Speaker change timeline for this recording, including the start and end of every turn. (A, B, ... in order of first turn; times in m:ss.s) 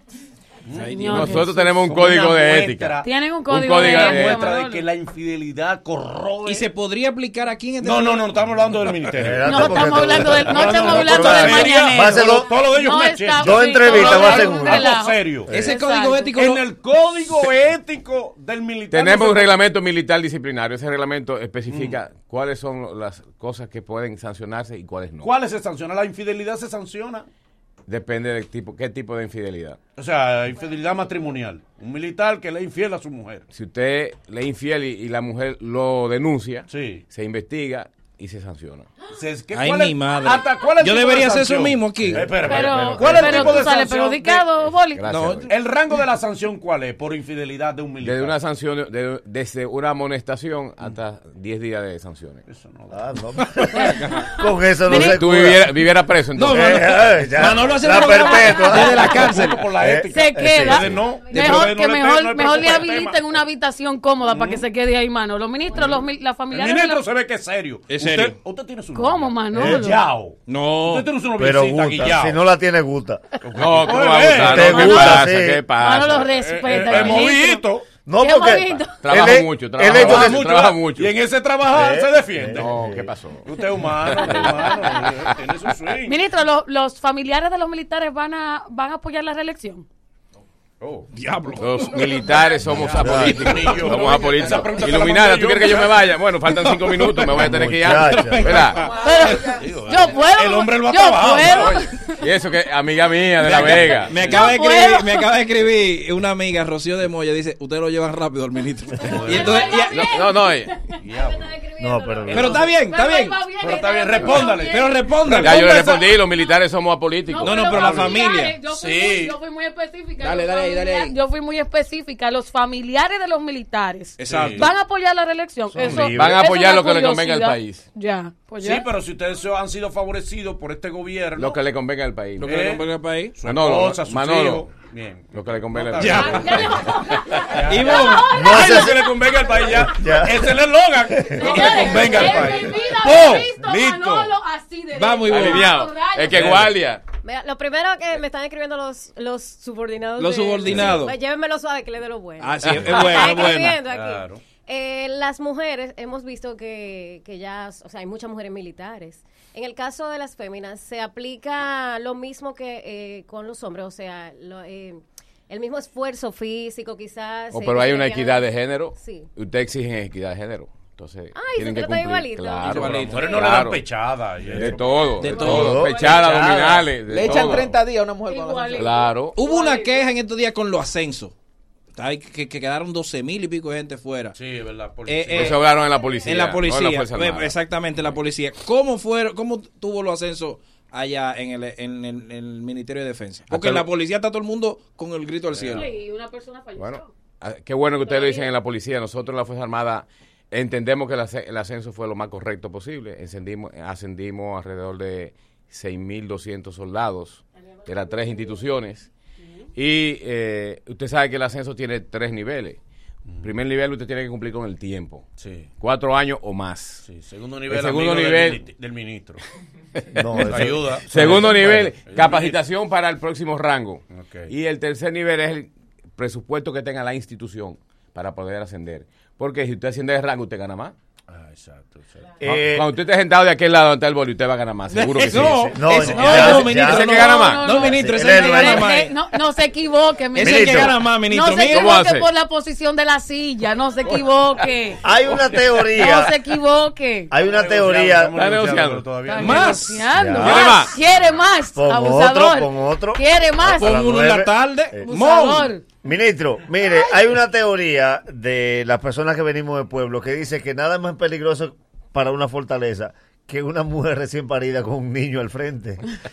0:00.6-0:03.1 A
0:00.7-0:01.4 B
0:00.9-0:01.7 C
0:01.1-0:04.5 D
0:03.0-0:04.8 C
0:03.7-0:06.7 A
0:06.4-0:08.3 B
0:07.8-0:15.5 A
0:09.1-0:12.5 E
0:09.4-0:16.3 C
0:13.4-0:15.0 E
0:15.5-0:15.7 E
0:15.5-0:16.6 B
0:16.3-0:19.6 A
0:18.9-0:25.3 D
0:21.7-0:22.0 A
0:25.2-0:27.2 A
0:27.9-0:29.8 D
0:30.0-0:33.4 A
0:33.5-0:38.9 D
0:36.7-0:37.0 A
0:39.1-0:44.5 A
0:39.5-0:42.3 B
0:42.1-0:43.7 E
0:42.4-0:45.1 C
0:44.9-0:45.5 D
0:45.0-0:45.5 B
0:45.5-0:48.4 A
0:48.0-0:52.4 D
0:52.5-0:53.0 A
0:52.9-0:55.7 E
0:53.4-0:54.2 B
0:54.9-0:55.2 C
0:55.0-0:57.0 D
0:56.3-0:59.7 B
0:56.4-1:01.0 E
0:57.4-1:03.3 A
1:00.1-1:07.0 C
1:01.3-1:01.7 B
1:04.3-1:04.6 A
1:05.8-1:12.4 A
1:07.9-1:08.4 B
1:08.9-1:10.0 C
1:09.6-1:09.8 E
1:10.5-1:11.1 B
1:11.4-1:13.2 E
1:13.4-1:15.2 A
1:13.6-1:17.2 D
1:14.3-1:15.6 E
1:14.6-1:17.6 C
1:16.2-1:17.9 A
1:18.0-1:20.5 E
1:18.2-1:19.0 C
1:19.0-1:21.1 D
1:19.8-1:22.7 A
1:21.7-1:23.1 E
1:22.5-1:23.5 D
1:23.4-1:26.2 A
1:24.0-1:24.5 D
1:24.2-1:24.7 C
1:26.0-1:29.8 C
1:30.8-1:31.1 A
1:31.1-1:34.7 B
1:31.6-1:38.9 D
1:32.7-1:36.1 A
1:32.9-1:33.8 E
1:36.6-1:39.6 B
1:37.4-1:38.7 E
1:38.9-1:42.2 C
1:39.4-1:41.9 A
1:41.5-1:44.3 D
1:43.4-1:44.4 A
1:43.6-1:50.0 B
1:44.2-1:45.3 C
1:49.0-1:49.7 A
1:49.3-1:50.2 F
1:49.3-1:51.0 C
1:49.9-1:50.8 D
1:51.0-1:51.6 A
1:51.0-1:52.8 F
1:51.8-1:52.5 E
1:52.3-1:52.7 A
1:52.3-1:53.4 B
1:52.5-1:55.0 C
1:53.6-1:56.2 A
1:54.6-1:55.8 B
1:55.3-1:57.7 D
1:57.3-2:08.8 C
1:57.4-1:58.6 B
1:57.7-1:59.4 A
2:00.2-2:01.1 B
2:04.2-2:04.7 B
2:04.3-2:04.7 A
2:05.7-2:06.4 E
2:05.8-2:07.8 D
2:08.6-2:11.6 A
2:11.4-2:12.6 D
2:12.4-2:13.4 B
2:12.4-2:24.3 A
2:13.4-2:14.7 D
2:15.3-2:16.7 D
2:16.0-2:16.6 B
2:16.1-2:19.4 C
2:17.6-2:18.3 B
2:18.3-2:20.6 E
2:21.1-2:21.6 E
2:21.3-2:26.6 C
2:23.1-2:23.3 B
2:24.9-2:25.8 B
2:25.3-2:27.0 D
2:26.3-2:26.8 A
2:27.2-2:49.3 F
2:30.2-2:31.2 B
2:30.7-2:31.0 A
2:32.4-2:33.8 B
2:32.7-2:34.4 A
2:47.5-2:53.8 D
2:51.3-2:53.1 F
2:52.6-2:53.6 B
2:52.8-2:57.6 A
2:54.5-2:57.8 D
2:55.2-2:55.9 B
2:55.4-2:56.1 E
2:55.4-2:55.7 C
2:57.0-2:59.1 G
2:58.2-3:00.0 C
2:58.8-2:59.4 D
2:59.3-3:01.3 B
3:01.9-3:04.3 B
3:04.4-3:05.7 A
3:05.0-3:05.6 B
3:05.3-3:07.6 D
3:05.7-3:06.4 F
3:06.2-3:15.9 B
3:13.5-3:13.9 D
3:15.5-3:15.9 A
3:15.7-3:17.1 C
3:16.8-3:29.1 D
3:18.0-3:18.5 C
3:27.9-3:28.3 F
3:29.8-3:32.8 D
3:33.3-3:33.5 A
3:33.4-3:35.2 D
3:35.4-3:35.7 A
3:35.8-3:37.0 D
3:37.0-3:39.4 A
3:37.7-3:38.6 D
3:40.1-3:41.9 E
3:40.4-3:42.6 A
3:40.4-3:50.9 D
3:44.1-3:44.5 A
3:51.3-3:52.4 A
3:52.4-3:52.9 E
3:52.4-3:55.7 D
3:54.9-3:59.2 B
3:55.7-3:59.0 E
3:55.9-3:56.6 A
3:56.3-3:57.7 D
3:56.6-4:05.0 C
4:00.3-4:01.0 E
4:00.3-4:01.9 B
4:01.7-4:02.3 D
4:05.0-4:06.3 E
4:05.9-4:07.3 C
4:07.3-4:08.3 E
4:07.3-4:09.8 A
4:08.4-4:09.0 D
4:09.3-4:13.9 C
4:09.3-4:10.8 B
4:10.1-4:10.7 E
4:10.4-4:10.9 D
4:11.8-4:15.1 E
4:13.7-4:15.7 B
4:15.0-4:15.8 C
4:16.0-4:26.0 E